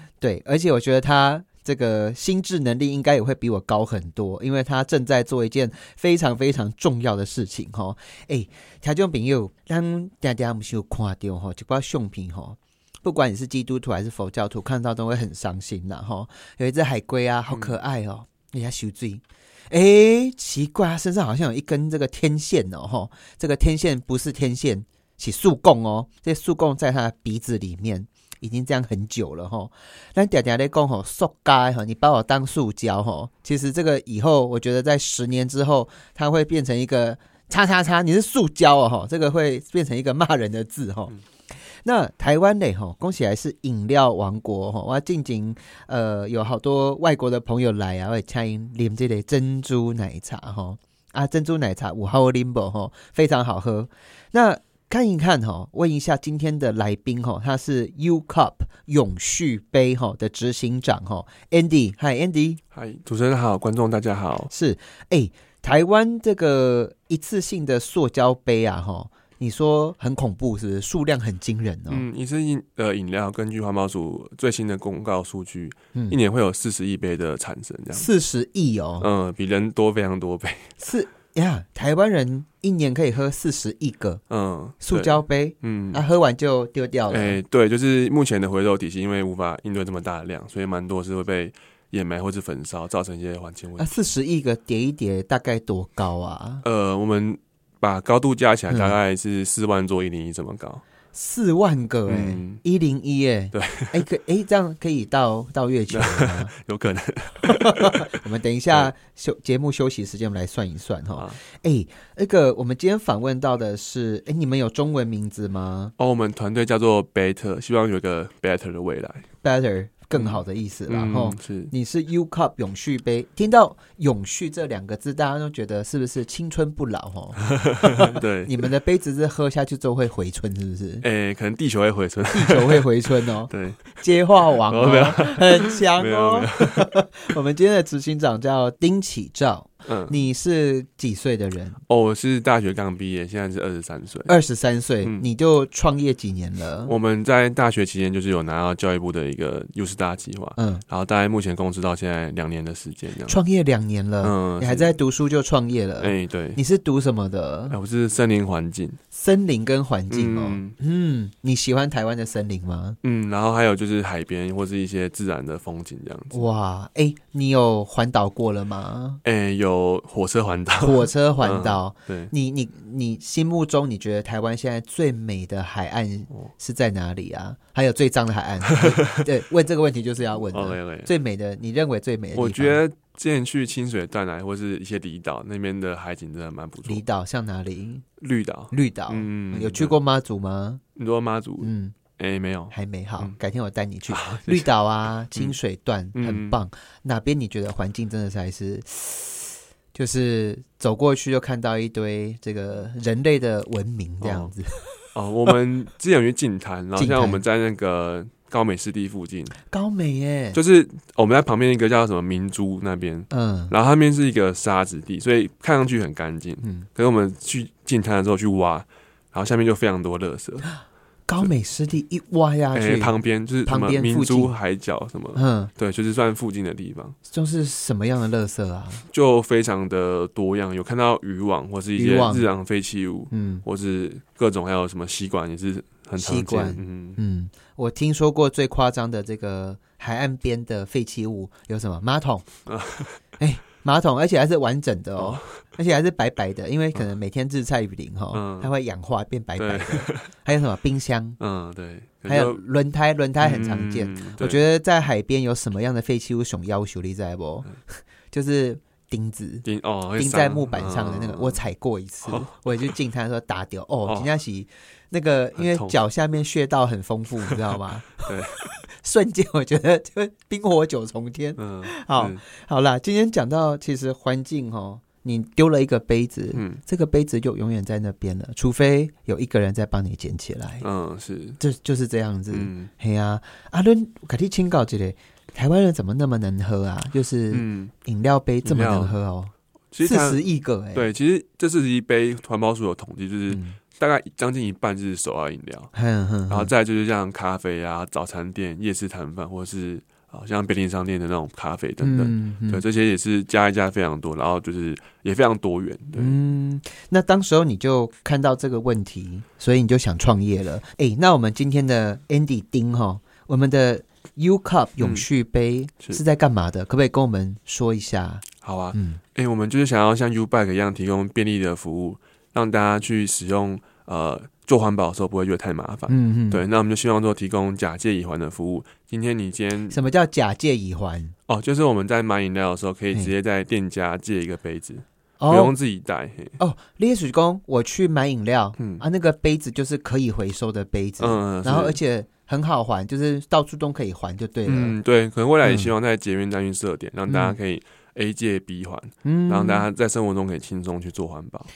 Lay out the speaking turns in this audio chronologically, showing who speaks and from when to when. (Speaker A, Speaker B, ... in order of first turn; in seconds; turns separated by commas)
Speaker A: 0.2-41.1, Speaker B: 17.5-17.8, Speaker A: 41.8-62.6, Speaker B: 62.7-64.5, Speaker A: 64.5-72.0, Speaker B: 71.9-78.1, Speaker A: 77.9-79.1, Speaker B: 79.0-80.8, Speaker A: 80.8-84.2, Speaker B: 84.3-86.0, Speaker A: 84.8-87.4, Speaker B: 87.1-93.9, Speaker A: 93.8-96.6, Speaker B: 96.6-100.8, Speaker A: 98.7-99.0, Speaker A: 101.1-106.5, Speaker B: 102.1-102.6, Speaker B: 103.5-104.0, Speaker B: 105.9-108.2, Speaker A: 107.4-115.9, Speaker B: 116.0-119.2, Speaker A: 119.4-131.0, Speaker B: 120.1-121.7, Speaker B: 127.5-128.5, Speaker B: 131.0-134.0, Speaker A: 132.3-141.8, Speaker B: 134.6-136.9, Speaker B: 139.8-140.2, Speaker B: 141.9-144.3, Speaker A: 144.3-146.9, Speaker B: 146.8-153.4, Speaker A: 150.6-150.8, Speaker A: 153.3-157.8, Speaker B: 154.2-155.0, Speaker B: 156.0-156.6, Speaker B: 157.7-159.0, Speaker A: 159.1-163.0, Speaker B: 160.1-160.8, Speaker B: 163.0-166.4, Speaker A: 166.3-169.2, Speaker B: 169.2-172.3, Speaker A: 170.8-182.8, Speaker B: 178.7-179.2, Speaker B: 180.5-181.1, Speaker B: 182.3-187.0, Speaker A: 186.8-188.0, Speaker B: 188.2-189.9, Speaker A: 188.7-190.8, Speaker B: 190.9-193.3, Speaker A: 191.6-192.0, Speaker A: 192.7-205.1, Speaker B: 194.1-194.7, Speaker B: 196.1-196.6, Speaker B: 204.2-204.5, Speaker B: 205.1-209.6, Speaker A: 206.9-207.4, Speaker A: 209.7-210.6, Speaker B: 210.5-220.7, Speaker A: 213.3-213.7, Speaker A: 221.3-223.1, Speaker B: 222.7-227.2, Speaker A: 223.7-224.5, Speaker A: 225.3-225.7, Speaker A: 227.3-229.0, Speaker B: 229.1-237.2, Speaker A: 231.9-232.5, Speaker A: 233.3-233.6, Speaker A: 236.2-242.5, Speaker B: 242.7-243.2, Speaker A: 243.4-251.4, Speaker B: 245.2-245.4, Speaker B: 248.3-248.7, Speaker B: 249.6-250.3, Speaker B: 251.4-252.6, Speaker A: 252.3-259.6, Speaker B: 253.4-254.6, Speaker B: 259.6-261.6, Speaker A: 260.2-280.8, Speaker B: 262.2-262.9, Speaker B: 264.0-264.3, Speaker B: 265.6-265.9, Speaker B: 268.2-268.6, Speaker B: 271.6-272.4, Speaker B: 276.5-276.8, Speaker B: 280.8-281.6, Speaker A: 281.6-291.1, Speaker B: 282.5-282.9, Speaker B: 287.5-287.9, Speaker B: 288.6-289.2, Speaker B: 289.9-295.9, Speaker A: 293.5-293.8, Speaker A: 295.9-296.7, Speaker B: 296.5-306.4, Speaker A: 302.0-302.8, Speaker A: 306.1-319.2, Speaker B: 315.0-315.2, Speaker B: 318.6-330.0, Speaker A: 326.1-326.6, Speaker A: 329.9-331.3, Speaker B: 331.5-336.6, Speaker A: 335.4-335.8, Speaker A: 336.6-344.9, Speaker B: 338.8-339.0, Speaker B: 341.2-342.0, Speaker B: 344.6-351.7, Speaker A: 345.6-345.9, Speaker A: 347.3-347.6, Speaker A: 349.2-349.8